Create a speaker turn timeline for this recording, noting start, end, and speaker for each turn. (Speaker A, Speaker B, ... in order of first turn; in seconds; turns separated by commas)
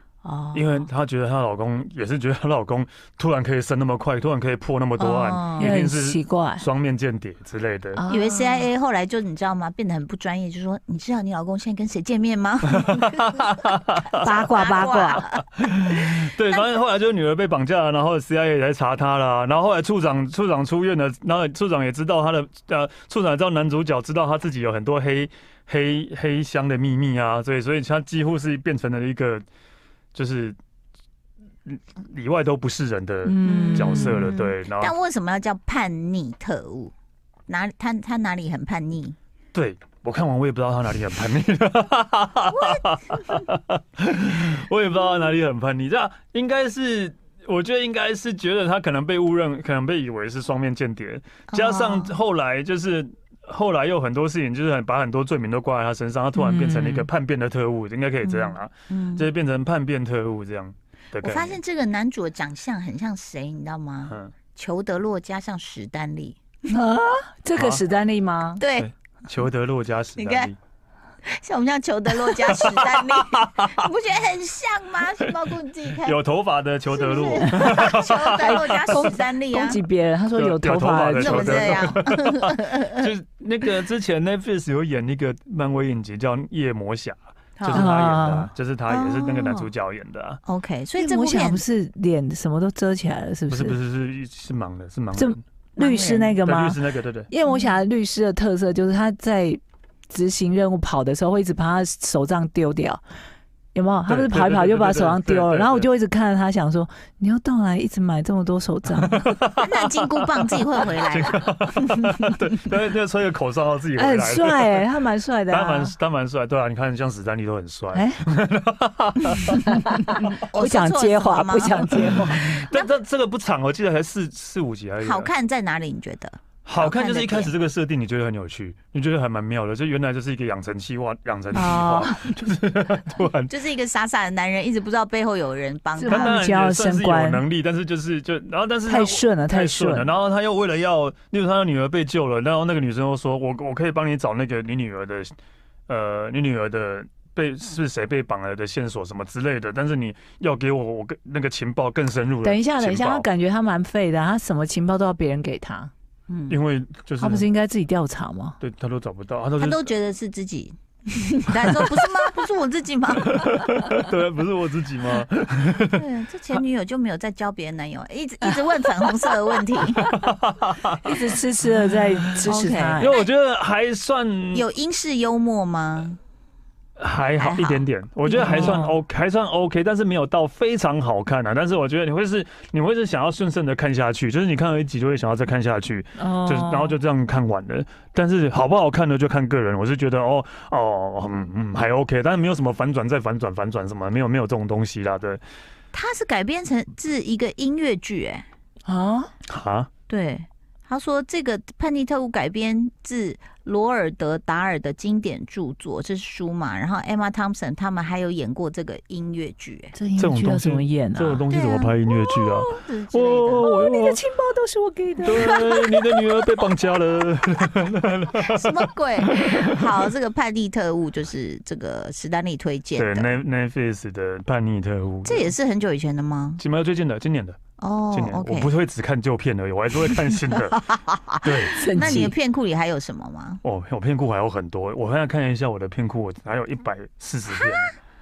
Speaker A: 0.2-0.9, Speaker B: 0.5-8.0, Speaker A: 5.0-5.7, Speaker C: 5.6-6.7, Speaker C: 8.0-8.7, Speaker A: 8.1-13.3, Speaker B: 12.7-14.2, Speaker A: 14.2-16.6, Speaker C: 14.2-15.2, Speaker B: 15.6-29.4, Speaker B: 30.1-30.6, Speaker B: 31.7-35.0, Speaker C: 33.2-34.3, Speaker A: 33.4-36.9, Speaker A: 37.5-39.2, Speaker B: 39.5-61.6, Speaker A: 42.5-43.3, Speaker A: 51.5-52.1, Speaker C: 56.4-57.1, Speaker A: 58.2-59.3, Speaker A: 61.2-66.4, Speaker B: 64.1-64.3, Speaker C: 66.7-68.6, Speaker B: 67.5-67.9, Speaker A: 68.6-68.9, Speaker B: 68.8-70.6, Speaker A: 70.2-70.5, Speaker A: 71.3-76.2, Speaker B: 72.2-73.7, Speaker B: 76.0-79.1, Speaker A: 76.9-79.8, Speaker C: 77.4-82.0, Speaker B: 80.3-90.4, Speaker A: 81.2-83.1, Speaker A: 87.6-87.9, Speaker C: 87.7-88.5, Speaker A: 88.9-89.7, Speaker A: 90.5-91.6, Speaker C: 91.0-93.8, Speaker B: 93.5-95.4, Speaker C: 95.2-96.8, Speaker A: 95.8-96.4, Speaker B: 96.4-97.3, Speaker C: 97.3-103.0, Speaker A: 97.5-97.7, Speaker C: 103.7-109.3, Speaker B: 104.1-105.9, Speaker B: 109.0-114.9, Speaker A: 109.6-112.1, Speaker C: 114.0-115.9, Speaker B: 115.5-120.3, Speaker C: 117.9-118.2, Speaker C: 119.7-122.6, Speaker A: 120.2-122.9, Speaker B: 122.3-125.3, Speaker A: 125.0-127.5, Speaker B: 126.7-133.5, Speaker C: 131.5-132.2, Speaker A: 133.5-136.4, Speaker C: 136.0-137.4, Speaker B: 136.1-145.3, Speaker C: 138.9-140.1, Speaker B: 145.9-153.3, Speaker C: 152.4-155.9, Speaker A: 156.3-156.6, Speaker B: 156.5-157.5, Speaker C: 157.2-158.6, Speaker B: 158.6-159.9, Speaker A: 159.6-163.6, Speaker B: 163.3-166.0, Speaker A: 165.9-170.1, Speaker B: 169.9-171.2, Speaker C: 171.0-173.2, Speaker B: 171.8-174.7, Speaker A: 172.4-173.3, Speaker A: 174.5-176.2, Speaker B: 177.0-195.4, Speaker A: 177.4-178.8, Speaker C: 178.3-179.0, Speaker C: 186.2-187.0, Speaker A: 195.9-198.4, Speaker C: 198.9-199.3, Speaker B: 199.5-199.9, Speaker A: 200.1-209.9, Speaker C: 209.9-211.4, Speaker B: 210.2-214.2, Speaker A: 211.5-211.9, Speaker C: 212.1-212.7, Speaker A: 212.7-213.7, Speaker C: 213.6-216.2, Speaker B: 215.2-220.1, Speaker A: 218.4-223.3, Speaker B: 223.0-225.5, Speaker A: 225.2-226.6, Speaker B: 226.6-227.6, Speaker A: 227.8-228.7, Speaker B: 228.1-230.8, Speaker A: 230.4-233.6, Speaker B: 231.4-232.3, Speaker C: 231.7-232.3, Speaker B: 233.6-237.9